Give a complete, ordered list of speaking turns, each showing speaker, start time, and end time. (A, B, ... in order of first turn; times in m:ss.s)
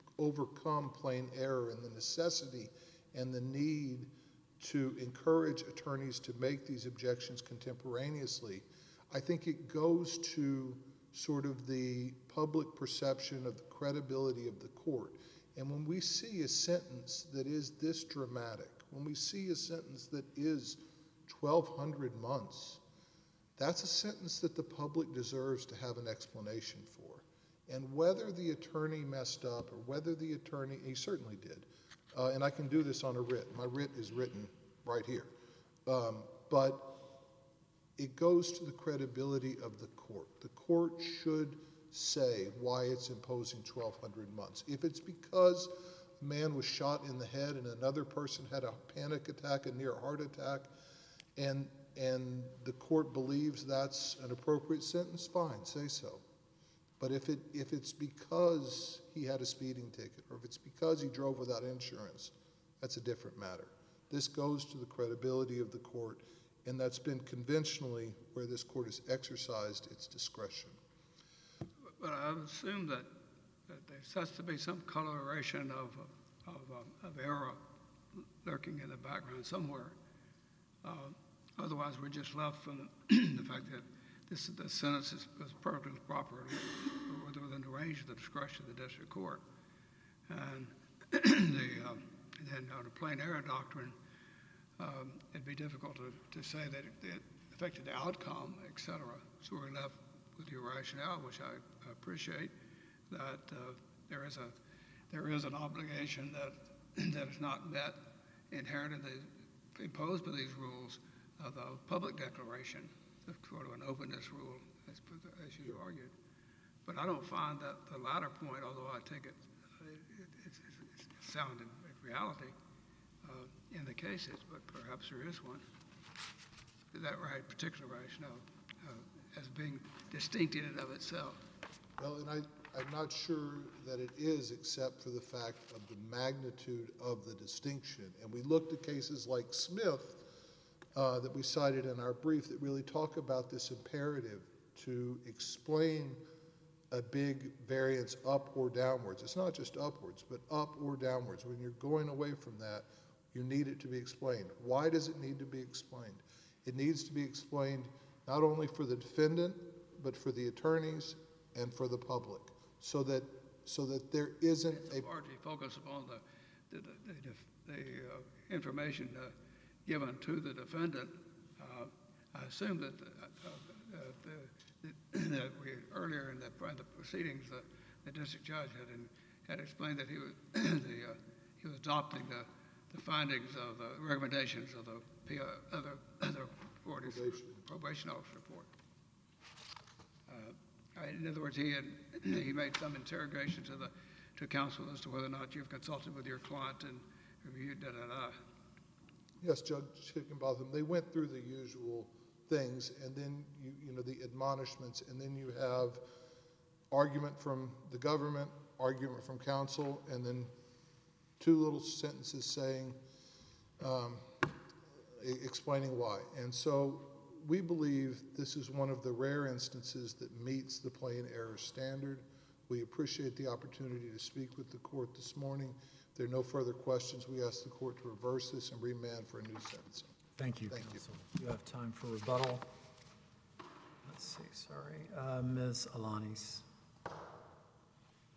0:00.2-0:22.8 A
0:23.6-0:35.3 A
0:35.9-0:37.0 A
0:38.0-0:50.7 A
0:51.4-0:56.2 A
0:57.0-1:10.8 A
1:12.0-1:13.1 B
1:13.7-1:17.6 B
1:18.4-1:20.0 B
1:20.8-1:29.4 B
1:30.3-1:34.0 B
1:34.8-1:42.5 B
1:43.1-1:44.6 B
1:45.1-1:56.1 B
1:56.8-2:02.6 B
2:03.2-2:05.6 B
2:06.9-2:11.4 B
2:12.0-2:20.2 A
2:21.0-2:26.2 A
2:26.9-2:45.1 A
2:44.7-2:49.3 B
2:49.9-3:08.7 B
3:07.0-3:07.6 A
3:10.3-3:18.4 B
3:19.4-3:26.0 A
3:26.9-3:30.5 A
3:31.4-3:33.0 A
3:33.8-3:34.4 A
3:35.2-3:50.1 A
3:50.4-3:52.7 C
3:50.7-3:51.0 A
3:54.0-3:56.6 C